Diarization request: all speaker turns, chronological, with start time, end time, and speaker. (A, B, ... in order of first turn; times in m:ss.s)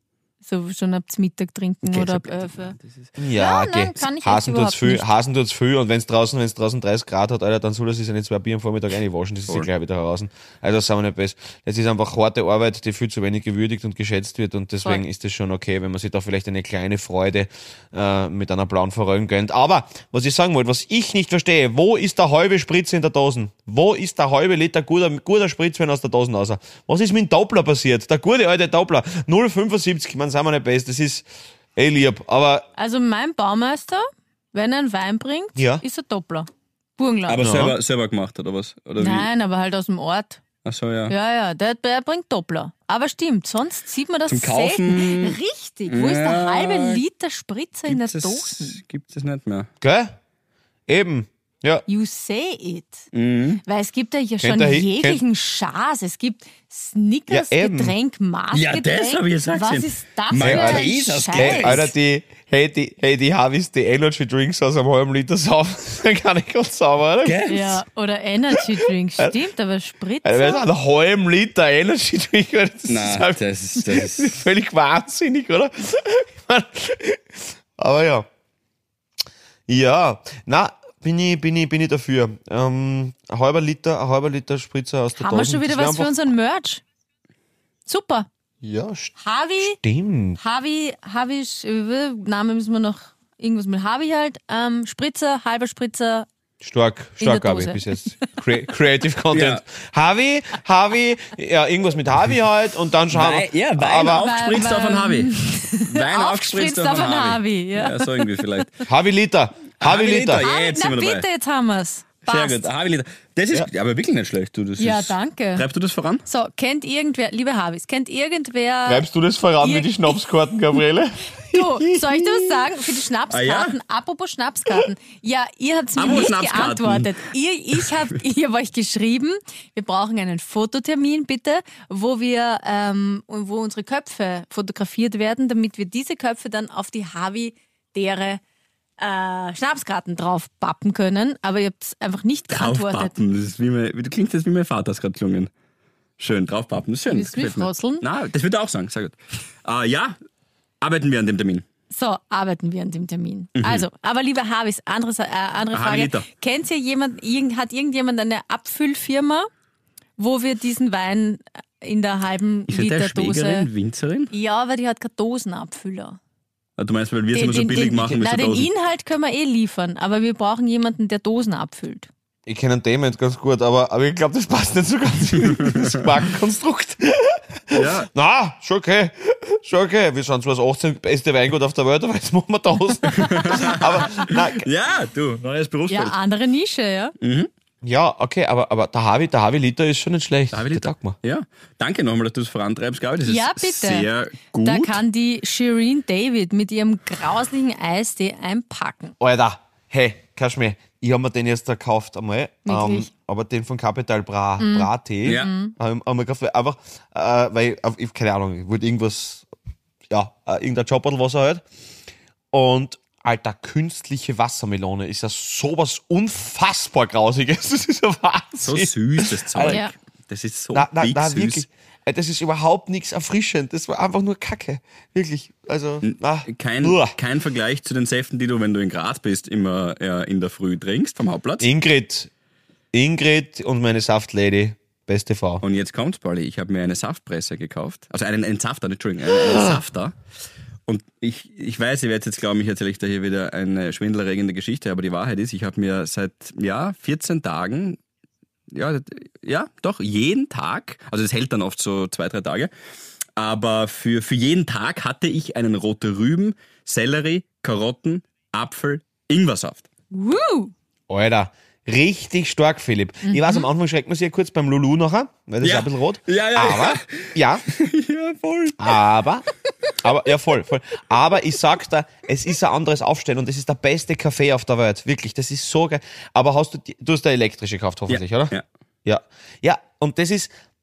0:00.4-0:02.8 A
0:01.8-0:03.1 B
0:03.2-0:32.7 C
0:03.3-0:05.1 A
0:32.8-0:37.5 A
0:35.6-0:35.8 C
0:37.3-0:39.3 B
0:37.4-0:37.8 C
0:39.0-0:40.4 A
0:40.6-0:41.1 B
0:41.1-0:48.8 A
0:44.3-0:47.0 B
0:47.9-0:49.7 B
0:49.8-0:50.1 C
0:50.9-0:51.8 C
0:51.9-0:53.0 A
0:53.1-0:53.6 B
0:53.6-1:01.9 A
0:54.4-0:55.2 C
0:57.3-0:57.9 C
0:58.5-1:01.9 B
1:00.4-1:07.4 C
1:07.2-1:07.8 B
1:07.5-1:10.6 A
1:10.2-1:18.3 C
1:12.9-1:14.4 B
1:19.7-1:26.1 C
1:25.2-1:26.8 A
1:27.8-1:28.3 A
1:28.6-1:30.4 C
1:29.2-1:29.8 A
1:30.4-1:36.3 A
1:36.6-1:44.3 C
1:37.2-1:38.3 A
1:39.3-1:39.6 B
1:43.1-1:48.8 B
1:44.2-1:48.5 A
1:48.9-1:50.5 C
1:49.8-1:51.2 B
1:50.4-1:52.7 A
1:52.3-1:56.2 B
1:54.8-1:55.6 A
1:56.2-1:59.0 A
1:58.8-2:02.6 C
1:59.6-2:00.2 A
2:01.5-2:18.4 A
2:03.3-2:03.8 B
2:06.0-2:07.2 B
2:19.0-2:23.1 A
2:22.5-2:25.5 B
2:26.2-2:30.2 B
2:27.1-2:28.0 A
2:30.8-2:31.6 B
2:31.9-2:39.5 A
2:33.6-2:33.8 B
2:35.7-2:36.2 B
2:40.2-2:43.7 A
2:42.7-2:44.3 B
2:44.3-2:46.2 A
2:46.8-2:48.7 B
2:47.3-2:52.1 A
2:52.4-3:04.6 C
2:55.5-2:56.1 B
2:57.7-2:58.1 B
3:03.1-3:06.2 B
3:03.2-3:04.2 A
3:05.9-3:07.1 A
3:07.2-3:07.5 B
3:07.8-3:11.2 C
3:10.5-3:15.0 B
3:13.2-3:14.1 A
3:14.6-3:19.1 A
3:19.2-3:29.5 C
3:22.6-3:23.1 A
3:24.6-3:25.7 A
3:25.2-3:25.5 B
3:30.1-3:31.6 C
3:32.5-3:39.8 C
3:38.6-3:41.6 B
3:40.7-3:47.2 C
3:46.0-3:51.7 B
3:51.6-3:52.3 C
3:52.9-3:55.6 C
3:55.6-4:00.2 B
3:59.3-3:59.8 C
4:00.9-4:08.0 B
4:08.7-4:12.7 B
4:13.4-4:19.9 B
4:20.1-4:20.7 A
4:21.1-4:27.6 C
4:23.2-4:23.6 A
4:25.6-4:29.0 B
4:28.8-4:29.4 C
4:30.0-4:38.5 C
4:38.1-4:38.6 B
4:39.0-4:40.5 C